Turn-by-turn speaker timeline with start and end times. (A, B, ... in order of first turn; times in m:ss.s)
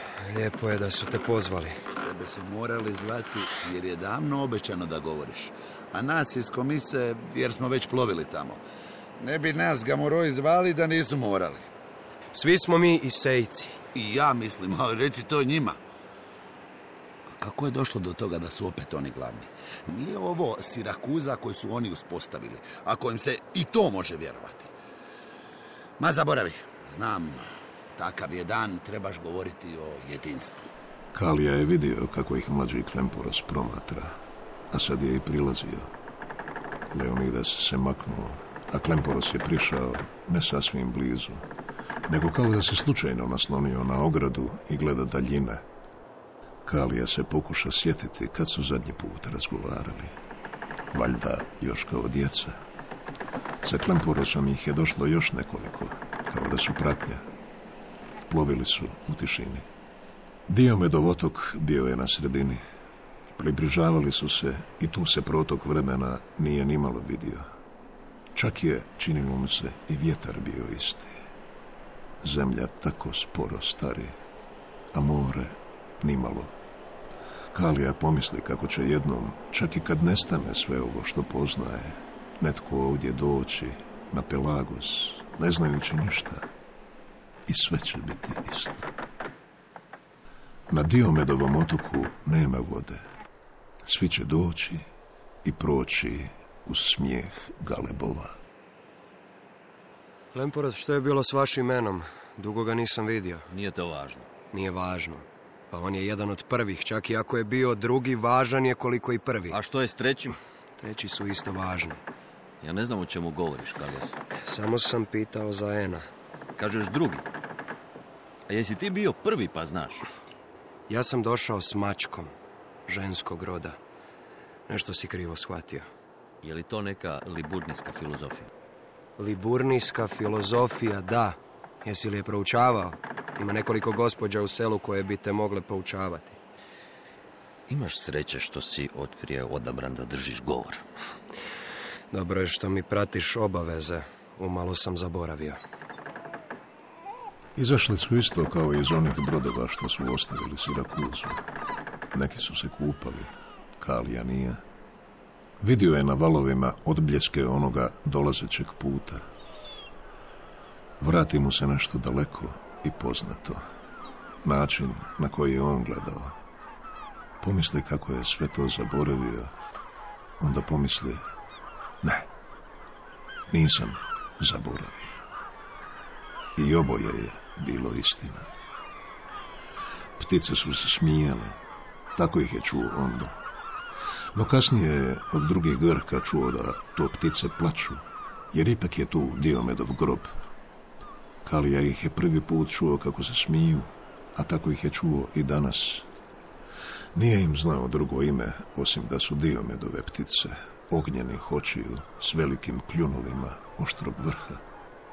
0:00.2-0:01.8 A
0:02.0-0:08.6 B
0:09.2-0:11.7 B
0:12.3-0:13.8 A
0:13.9-0:15.8 B
0:17.3-0:24.7 B
0:26.0-0:30.7 B
0:31.1-0:34.2 C
0:34.7-0:35.9 C
0:36.9-0:41.4 C
0:42.1-0:45.6 C
0:46.6-0:50.1 C
0:50.9-0:52.6 C
0:53.6-0:57.2 C
0:58.3-0:59.6 C
1:00.5-1:02.6 C
1:03.3-1:07.4 C
1:08.3-1:11.2 C
1:12.2-1:14.1 C
1:14.9-1:16.5 C
1:17.5-1:26.5 C
1:27.5-1:28.9 C
1:30.7-1:33.1 C
1:33.8-1:34.8 C
1:35.4-1:38.4 C
1:40.3-1:43.5 A
1:43.5-1:44.3 D
1:44.5-1:49.6 A
1:49.5-1:50.4 D
1:50.8-1:52.0 A
1:52.6-1:54.2 D
1:54.4-1:56.0 A
1:56.6-1:57.2 D
1:58.5-2:00.0 D
2:00.9-2:02.3 A
2:02.9-2:03.8 A
2:04.7-2:05.9 A
2:06.4-2:08.5 D
2:09.2-2:16.4 A
2:17.7-2:20.8 D
2:22.1-2:25.6 A
2:27.6-2:31.4 C
2:32.1-2:34.6 C
2:35.6-2:39.3 C
2:41.0-2:43.6 C
2:44.4-2:46.3 C
2:47.4-2:49.5 C
2:50.4-2:51.2 C
2:52.0-2:52.3 C
2:53.5-2:55.2 C
2:56.6-2:58.5 C
3:00.2-3:01.6 C
3:02.1-3:03.4 C
3:04.3-3:10.3 C
3:11.4-3:16.1 C
3:17.1-3:24.6 C